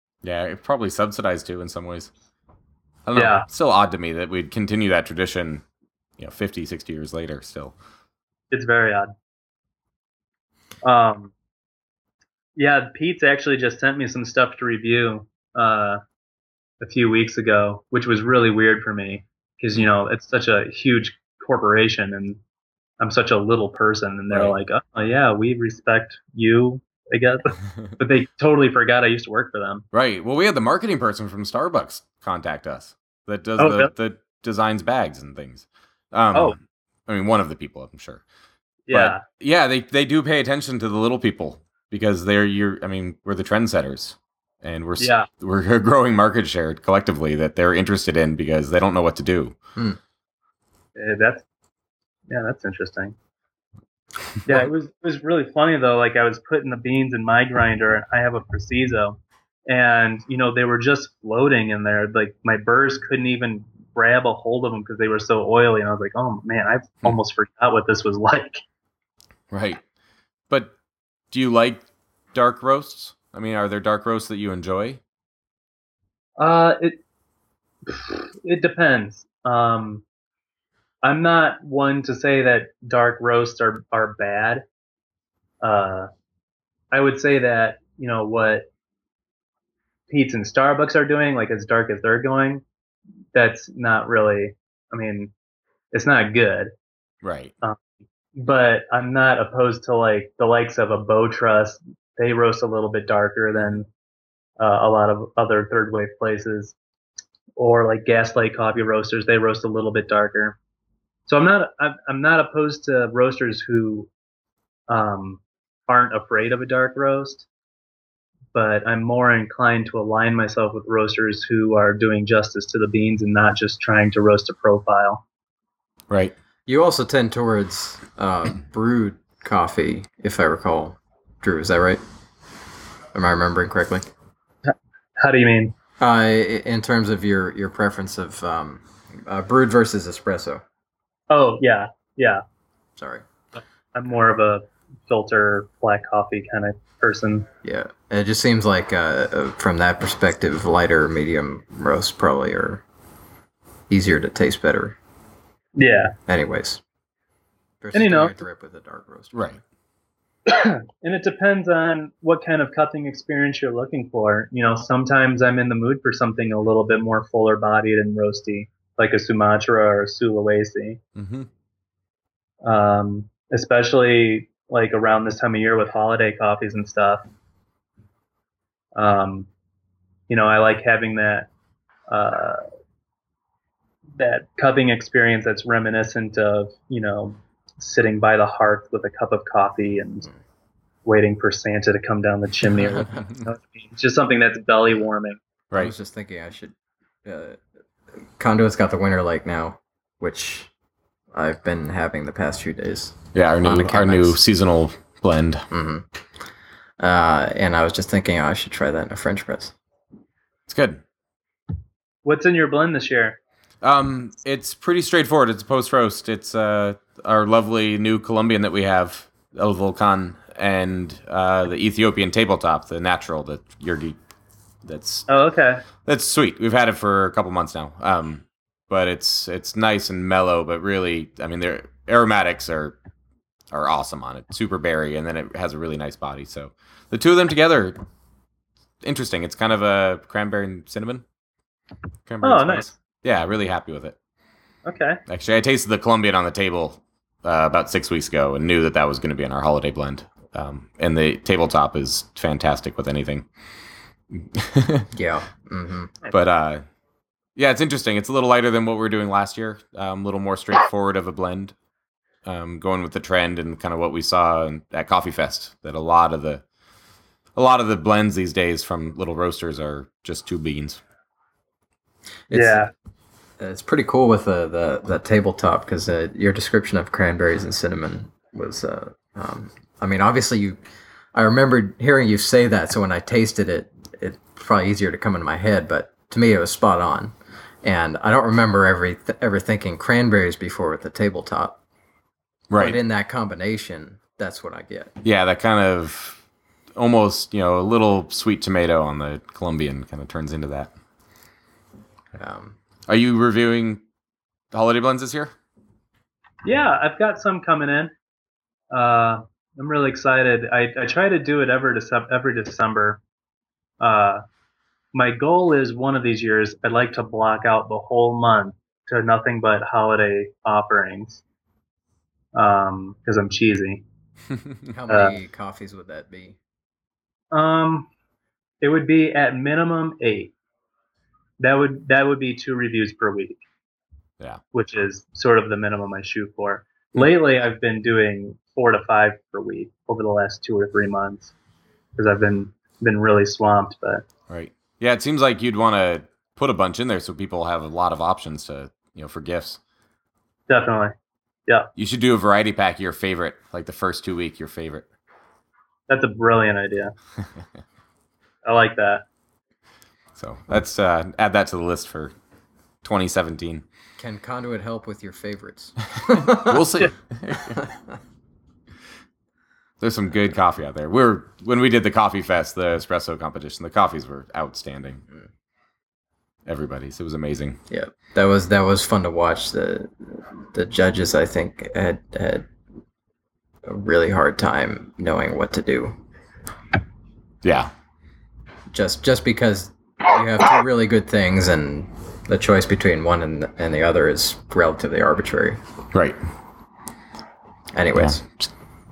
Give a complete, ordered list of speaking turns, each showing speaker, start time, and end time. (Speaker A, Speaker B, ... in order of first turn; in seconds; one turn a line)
Speaker A: 0.2-2.1
Speaker A: 3.1-5.6
Speaker B: 3.1-3.5
Speaker A: 6.2-7.8
Speaker B: 8.5-9.1
Speaker B: 10.8-11.3
Speaker B: 12.6-16.0
Speaker B: 16.8-22.4
Speaker B: 23.0-29.9
Speaker A: 29.9-38.2
Speaker B: 33.6-33.9
Speaker B: 38.9-39.2
Speaker A: 38.9-49.6
Speaker B: 45.0-45.3
Speaker B: 51.0-51.5
Speaker B: 52.3-53.2
Speaker B: 54.5-68.6
Speaker A: 69.5-69.8
Speaker A: 71.3-75.0
Speaker B: 76.4-77.0
Speaker B: 77.9-80.0
Speaker B: 81.0-84.6
Speaker B: 85.6-86.1
Speaker B: 86.9-88.7
Speaker B: 90.1-92.6
Speaker B: 93.3-95.3
Speaker B: 95.9-96.7
Speaker A: 97.2-97.5
Speaker B: 98.4-103.9
Speaker B: 104.6-106.8
Speaker B: 107.6-110.6
Speaker B: 111.3-114.1
Speaker B: 114.9-117.5
Speaker B: 118.5-125.2
Speaker A: 126.1-126.3
Speaker C: 126.7-132.0
Speaker C: 133.1-134.1
Speaker B: 134.7-135.7
Speaker C: 136.0-140.6
Speaker B: 141.3-142.4
Speaker C: 143.0-143.2
Speaker B: 143.9-147.5
Speaker C: 147.6-152.8
Speaker C: 153.9-155.0
Speaker B: 155.8-156.2
Speaker C: 156.3-156.8
Speaker C: 157.8-159.4
Speaker B: 157.9-158.4
Speaker A: 159.3-159.6
Speaker B: 160.5-171.0
Speaker A: 171.2-171.5
Speaker B: 172.6-177.2
Speaker B: 179.0-179.5
Speaker B: 180.3-181.5
Speaker B: 182.1-182.6
Speaker B: 184.2-190.3
Speaker B: 191.1-195.4
Speaker C: 195.7-197.6
Speaker C: 198.2-200.7
Speaker C: 201.3-204.4
Speaker A: 203.3-205.7
Speaker C: 205.7-206.1
Speaker C: 207.0-209.8
Speaker A: 210.7-211.0
Speaker B: 212.2-213.4
Speaker A: 213.8-224.2
Speaker A: 224.8-225.3
Speaker B: 225.3-225.8
Speaker A: 226.1-233.0
Speaker A: 233.7-238.0
Speaker A: 239.0-241.2
Speaker A: 242.3-244.2
Speaker B: 242.4-242.9
Speaker B: 244.9-245.2
Speaker A: 245.3-253.5
Speaker A: 254.3-255.1
Speaker C: 255.1-256.1
Speaker A: 256.3-256.8
Speaker A: 257.6-261.8
Speaker A: 262.4-266.6
Speaker A: 267.6-271.0
Speaker C: 272.5-272.9
Speaker B: 272.5-272.9
Speaker C: 273.6-280.8
Speaker C: 281.3-291.8
Speaker A: 292.7-293.0
Speaker C: 292.8-295.1
Speaker A: 295.2-296.4
Speaker A: 297.0-300.9
Speaker C: 302.4-302.8
Speaker A: 303.1-304.0
Speaker A: 304.7-305.5
Speaker B: 306.6-308.1
Speaker B: 308.9-313.2
Speaker B: 314.0-314.4
Speaker B: 315.1-321.4
Speaker B: 322.6-324.1
Speaker C: 324.9-326.6
Speaker B: 325.1-325.4
Speaker B: 327.5-328.1
Speaker B: 328.8-330.5
Speaker B: 331.6-333.6
Speaker B: 334.7-341.5
Speaker B: 342.2-344.2
Speaker A: 344.5-349.8
Speaker B: 350.7-351.1
Speaker A: 352.0-355.1
Speaker B: 356.1-357.1
Speaker B: 358.6-359.2
Speaker A: 360.4-362.3
Speaker A: 363.0-363.8
Speaker C: 364.2-366.8
Speaker A: 366.2-367.8
Speaker C: 367.6-368.2
Speaker A: 370.0-375.2
Speaker A: 376.7-377.8
Speaker C: 377.9-382.7
Speaker C: 383.9-386.2
Speaker A: 387.6-387.9
Speaker C: 388.9-395.8
Speaker A: 396.1-396.4
Speaker C: 397.9-398.4
Speaker A: 398.1-398.7